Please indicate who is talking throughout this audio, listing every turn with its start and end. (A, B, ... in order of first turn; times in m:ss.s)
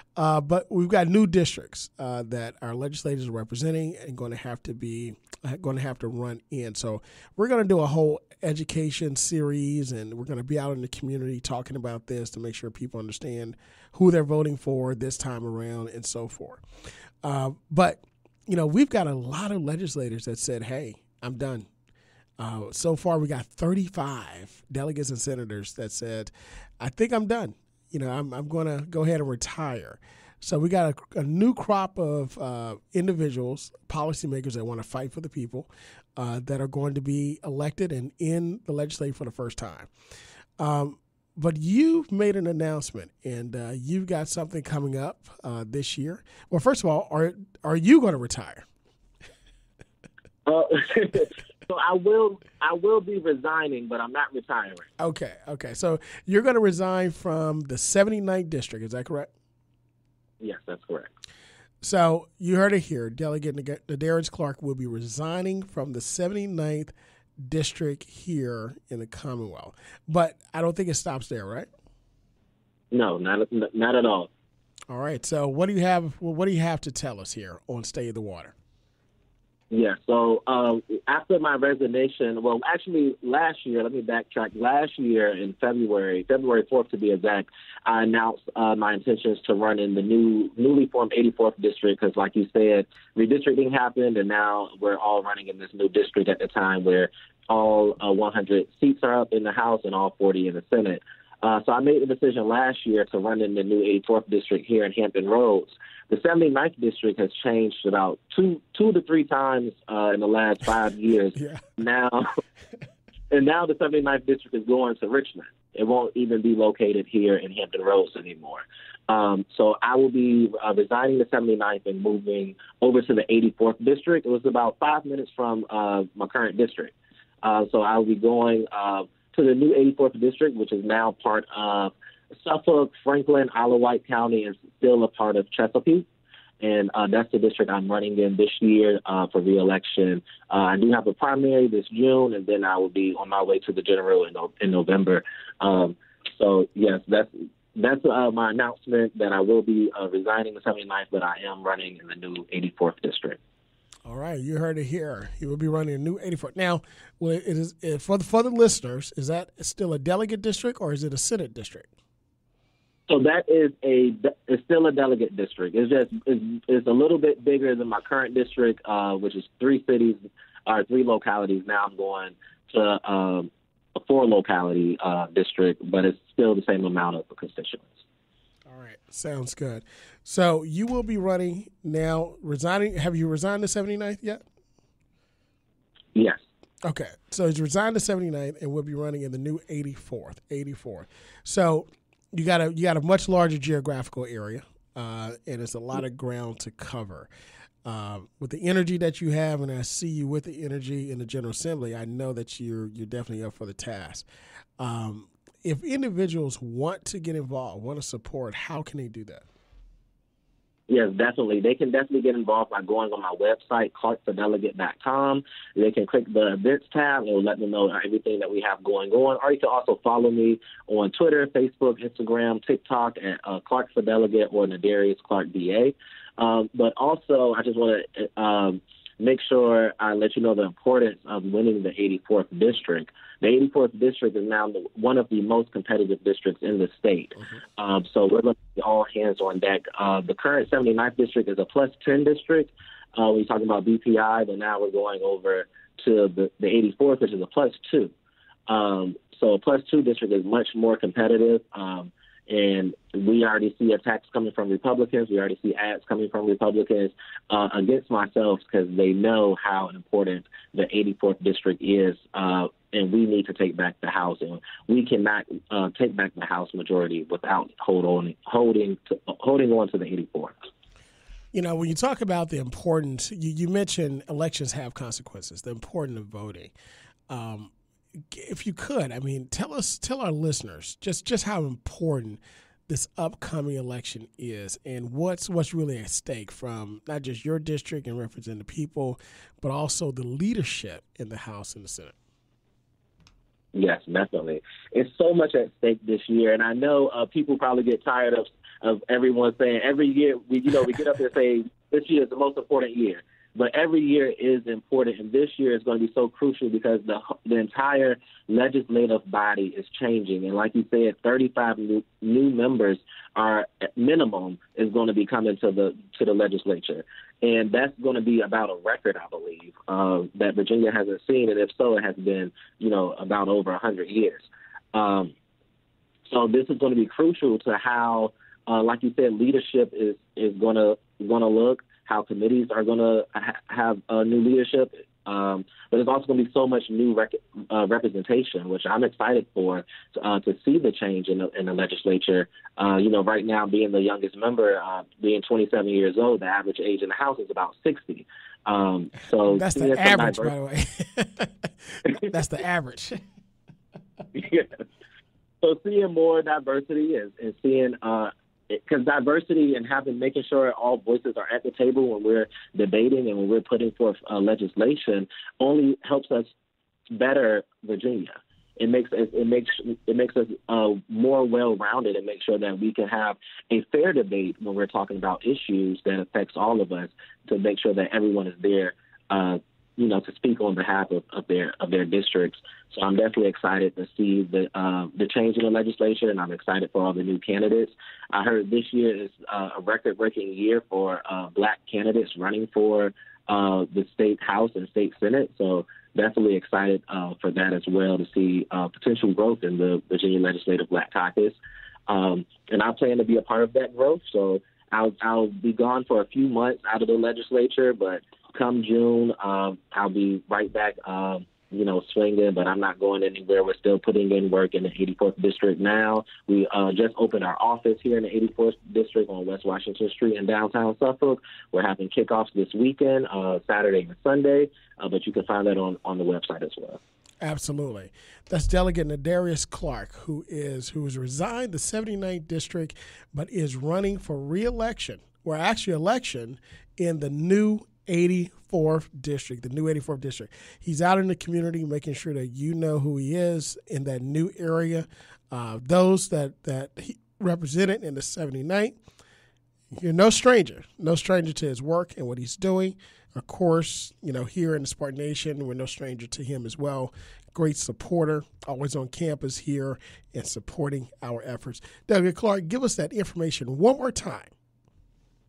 0:00.2-0:16.6 A
0:17.2-0:21.7 A
0:22.4-0:39.9 A
0:40.6-0:48.7 A
0:50.5-0:54.9 B
0:55.0-0:59.3 A
1:00.4-1:01.1 B
1:01.8-1:11.7 A
1:12.9-1:14.3 B
1:14.9-1:18.6 A
1:19.7-1:52.3 B
1:53.3-2:16.1 B
2:16.6-2:33.4 B
2:34.1-2:41.9 A
2:43.1-2:58.0 B
2:58.7-3:04.4 A
3:06.2-3:06.4 B
3:06.9-3:17.3 A
3:17.8-3:24.3 A
3:24.8-3:29.4 A
3:30.9-4:08.1 B
4:08.7-4:30.5 B
4:31.5-4:36.7 A
4:37.3-4:37.7 A
4:38.3-4:52.2 A
4:53.7-5:25.3 B
5:26.3-5:50.5 B
5:49.5-5:53.2 A
5:54.3-5:54.8 B
5:55.6-6:06.5 B
6:07.1-7:07.0 B
7:07.4-7:29.0 A
7:30.0-7:44.5 A